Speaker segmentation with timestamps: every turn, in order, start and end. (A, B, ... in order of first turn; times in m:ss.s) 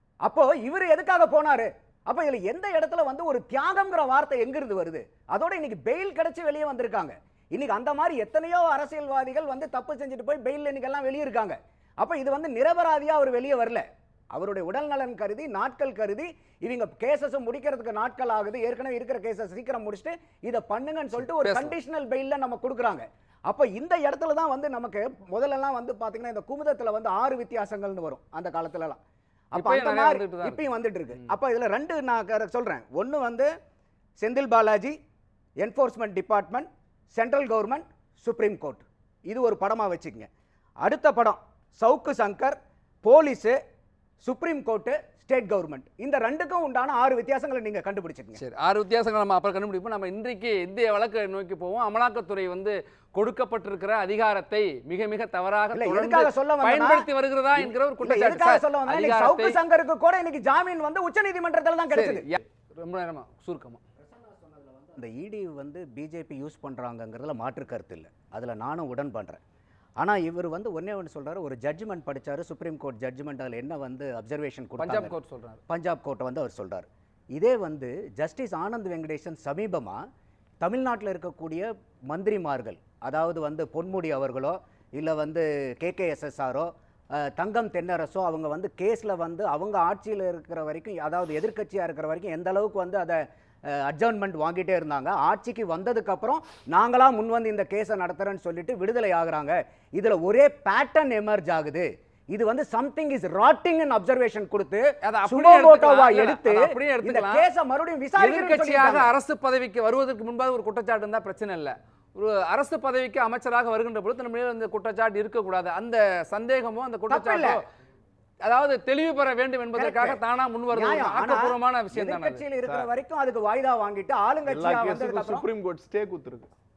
0:00.2-0:29.0 A
0:21.4-0:21.8 B
0:29.5-0:30.6 B
0:29.5-0:33.5 A
0:34.2-0:35.0 A
0:35.6-0:40.3 A
0:40.8-0:43.6 A
0:44.2-0:48.4 A
0:48.4-0:59.6 B
0:55.7-1:02.3 A
1:01.9-1:03.8 B
1:04.0-1:09.4 A
1:10.0-1:15.1 A
1:14.8-1:15.6 B
1:15.7-1:20.0 A
1:20.6-1:49.1 A
1:45.0-1:47.4 B
1:48.2-1:57.6 B
1:57.1-1:57.6 A
1:58.4-2:02.4 B
1:59.8-2:00.2 A
2:00.7-2:05.5 A
2:04.5-2:06.5 C